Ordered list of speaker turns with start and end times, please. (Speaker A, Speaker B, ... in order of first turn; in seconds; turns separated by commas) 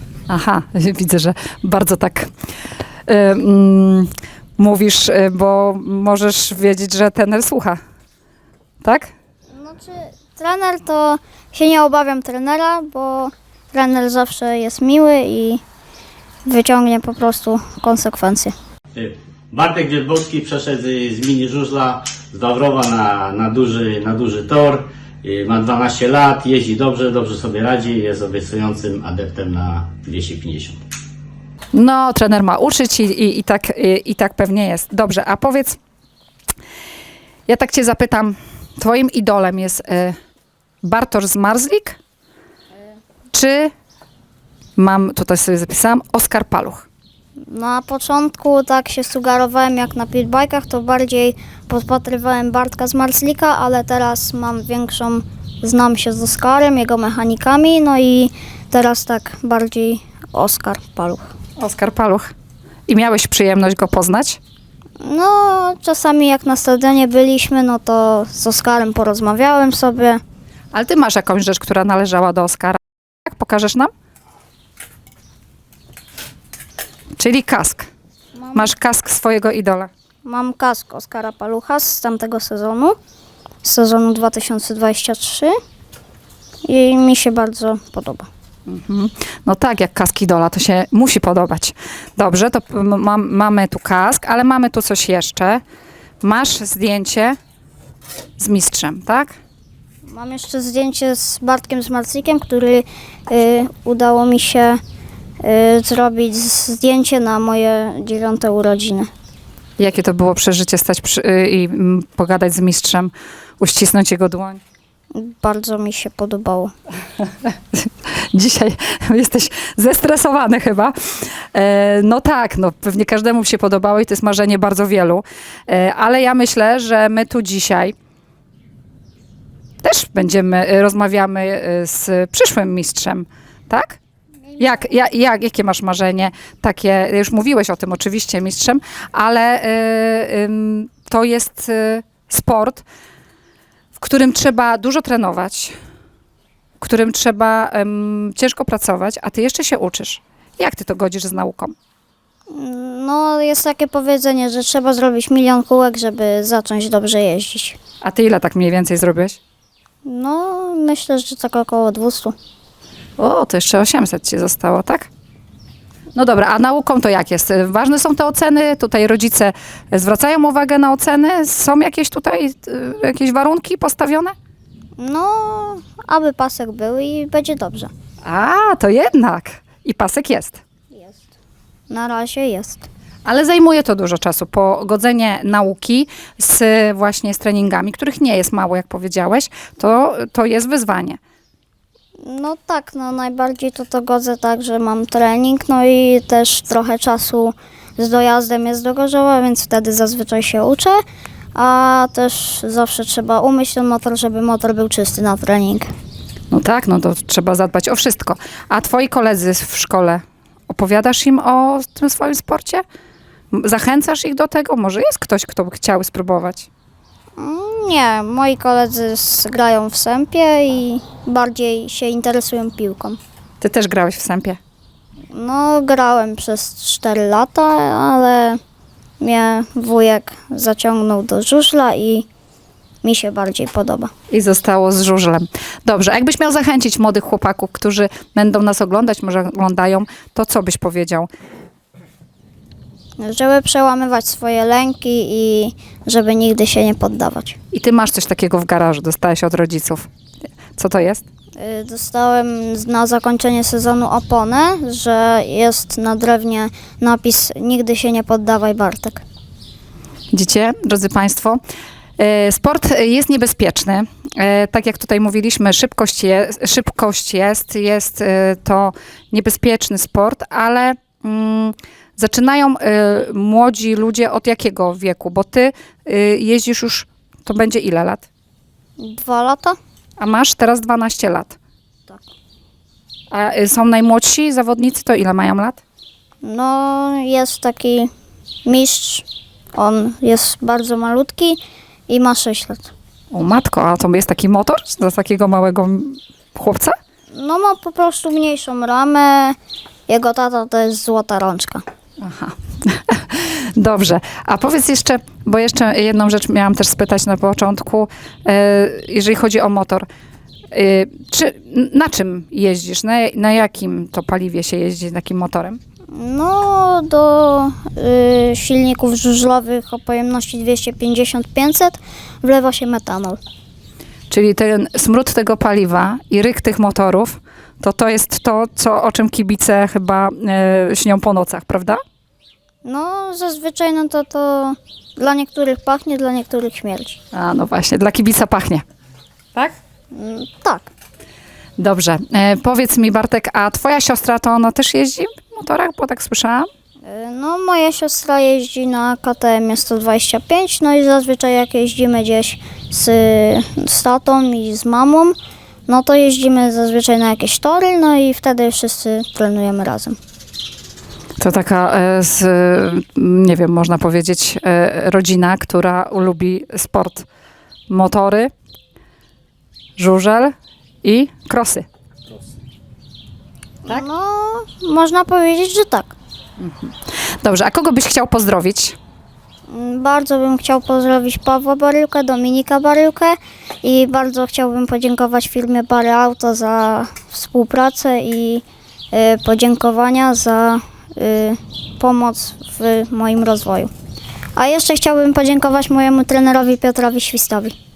Speaker A: 0.3-2.3, Speaker A: 3.1-7.8, Speaker A: 8.8-9.1, Speaker B: 9.5-15.6, Speaker B: 16.4-18.5, Speaker C: 19.0-30.8, Speaker A: 31.7-35.8, Speaker A: 37.5-40.1, Speaker A: 40.8-42.0, Speaker A: 43.3-43.7, Speaker A: 44.8-46.9, Speaker B: 47.5-61.3, Speaker A: 61.6-62.3, Speaker A: 62.9-64.4, Speaker B: 65.0-70.2, Speaker A: 70.7-73.9, Speaker A: 77.2-77.9, Speaker B: 78.3-78.7, Speaker A: 78.5-79.9, Speaker B: 80.2-83.0, Speaker B: 83.6-85.5, Speaker B: 86.7-88.3, Speaker A: 88.7-95.6, Speaker A: 96.2-97.4, Speaker A: 98.4-99.3, Speaker B: 100.0-104.8, Speaker B: 105.4-109.1, Speaker A: 109.8-114.6, Speaker B: 115.1-116.7, Speaker A: 117.4-127.9, Speaker A: 129.8-134.0, Speaker A: 134.6-142.8, Speaker A: 143.9-145.7, Speaker A: 146.8-151.7, Speaker B: 152.5-157.8, Speaker A: 158.0-159.4, Speaker B: 160.0-162.3, Speaker A: 163.2-165.1, Speaker A: 166.1-174.3, Speaker B: 175.0-177.9, Speaker A: 178.2-180.6, Speaker B: 180.9-181.3, Speaker B: 181.9-182.8, Speaker A: 183.2-191.2, Speaker B: 192.2-201.0, Speaker B: 201.5-205.9, Speaker A: 206.5-212.8, Speaker A: 213.5-216.7, Speaker B: 217.4-223.2, Speaker A: 223.6-224.6, Speaker B: 225.3-228.6, Speaker B: 229.2-232.3, Speaker B: 233.0-234.1, Speaker A: 234.3-241.3, Speaker B: 243.2-247.6, Speaker A: 247.7-250.1, Speaker A: 250.7-251.2, Speaker B: 251.6-259.2, Speaker A: 260.3-261.6, Speaker A: 262.2-278.2, Speaker B: 279.0-279.8, Speaker A: 280.2-281.6, Speaker A: 283.3-285.8, Speaker B: 286.4-288.1, Speaker B: 288.6-292.9, Speaker A: 293.3-296.9, Speaker B: 297.3-299.6, Speaker B: 300.1-301.8, Speaker A: 302.2-310.1, Speaker A: 310.7-315.8, Speaker B: 316.1-323.4, Speaker A: 324.3-332.0, Speaker B: 332.8-337.2, Speaker A: 337.3-338.8, Speaker B: 340.1-340.9, Speaker A: 341.8-346.7, Speaker B: 347.0-355.4, Speaker B: 355.9-360.2, Speaker A: 361.4-367.2, Speaker A: 367.9-368.5, Speaker A: 370.0-371.9, Speaker B: 373.9-376.1, Speaker A: 376.6-378.9, Speaker B: 379.7-393.9, Speaker B: 394.6-397.7